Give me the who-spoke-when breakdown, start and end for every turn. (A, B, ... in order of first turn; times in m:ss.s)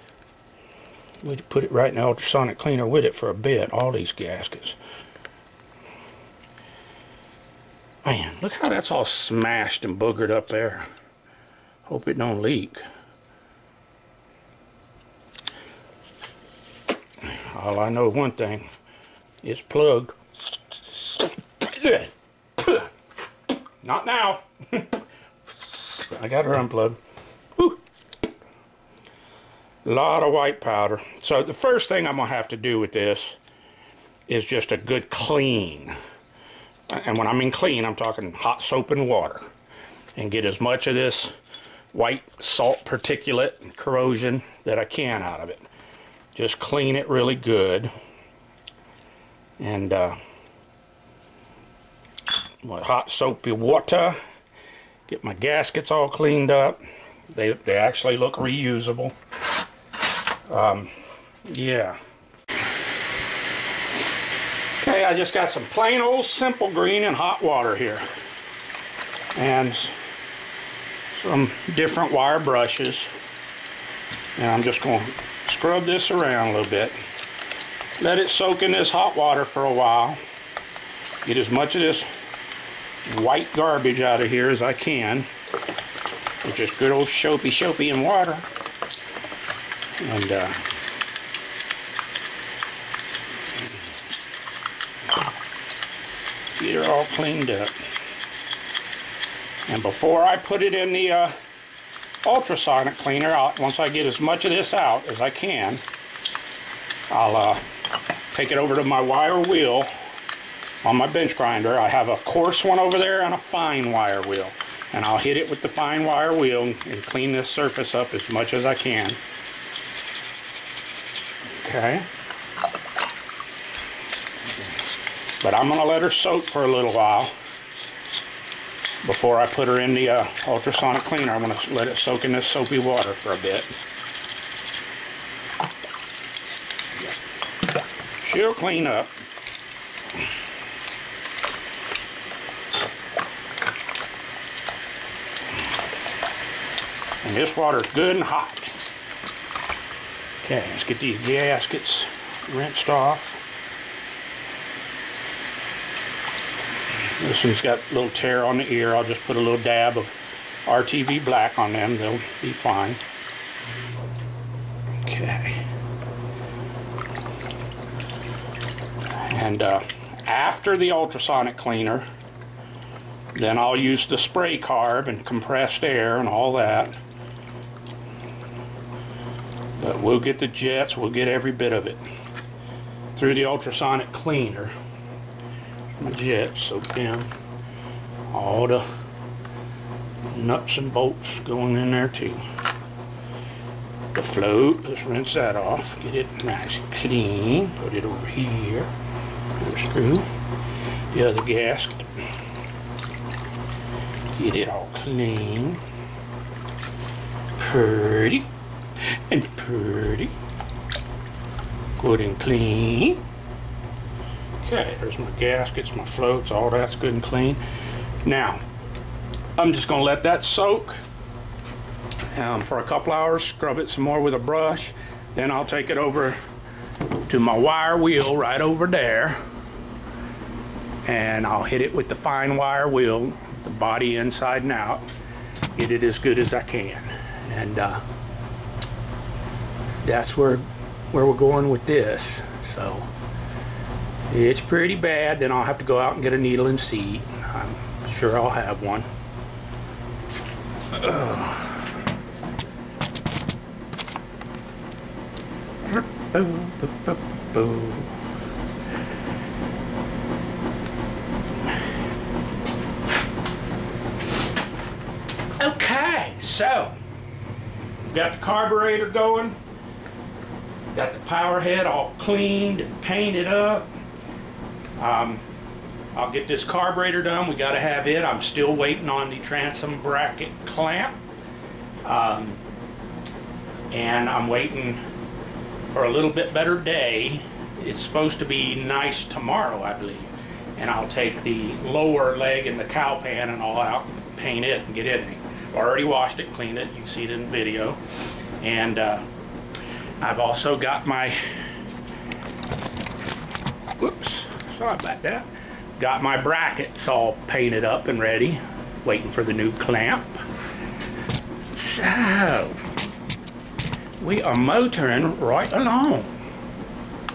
0:01.2-0:04.8 A
0:08.0-0:10.9 A
0:11.9-0:12.8 A
0:17.2-0:18.7 A
0:19.4-0:20.2 A
0:20.7-0:22.1 A
0:23.8-0:24.9 A
0:25.7-0:27.0 A
0:29.8-0:33.4 A
0:34.3-0:36.0 A
0:36.9-0:39.5 A
0:40.2-0:41.3 A
0:41.9-0:45.7 A
0:46.4-0:47.9 A
0:49.6-0:50.2 A
0:52.6-0:54.2 A
0:55.1-0:56.8 A
0:57.3-0:59.2 A
1:00.5-1:00.9 A
1:01.5-1:02.0 A
1:04.8-1:08.0 A
1:09.4-1:10.0 A
1:11.1-1:13.1 A
1:14.4-1:17.0 A
1:18.0-1:20.2 A
1:21.2-1:22.1 A
1:23.1-1:25.3 A
1:26.4-1:28.5 A
1:30.0-1:30.6 A
1:36.6-1:37.8 A
1:39.7-1:41.3 A
1:42.2-1:45.8 A
1:47.1-1:47.6 A
1:48.3-1:49.9 A
1:50.8-1:59.2 A
2:01.5-2:02.1 A
2:05.4-2:07.3 A
2:09.0-2:13.7 A
2:18.2-2:19.1 A
2:27.2-2:28.8 A
2:30.4-2:33.4 A
2:37.2-2:43.0 A
2:45.0-2:45.6 A
2:49.2-2:52.1 A
2:53.3-2:57.0 A
2:59.8-3:02.0 A
3:03.2-3:04.7 A
3:06.0-3:07.3 A
3:08.3-3:08.9 A
3:10.3-3:12.4 A
3:14.1-3:18.9 A
3:19.6-3:20.3 A
3:21.1-3:22.1 A
3:24.3-3:25.8 A
3:27.6-3:28.5 A
3:29.3-3:30.3 A
3:32.0-3:33.2 A
3:34.6-3:37.6 A
3:38.2-3:38.6 A
3:39.6-3:41.0 A
3:42.3-3:46.4 A
3:47.2-3:49.4 A
3:51.0-3:55.0 A
3:55.8-3:58.0 A
4:00.0-4:03.1 A
4:04.3-4:09.1 A
4:10.9-4:11.9 A
4:15.9-4:18.2 A
4:25.6-4:26.9 A
4:28.1-4:29.6 A
4:30.9-4:33.8 A
4:35.0-4:35.4 A
4:36.2-4:41.2 A
4:42.0-4:42.6 A
4:43.9-4:45.0 A
4:45.9-4:58.0 A
4:58.6-4:59.3 A
5:00.2-5:01.4 A
5:04.0-5:05.5 A
5:06.0-5:10.4 A
5:11.8-5:12.8 A
5:14.2-5:16.4 A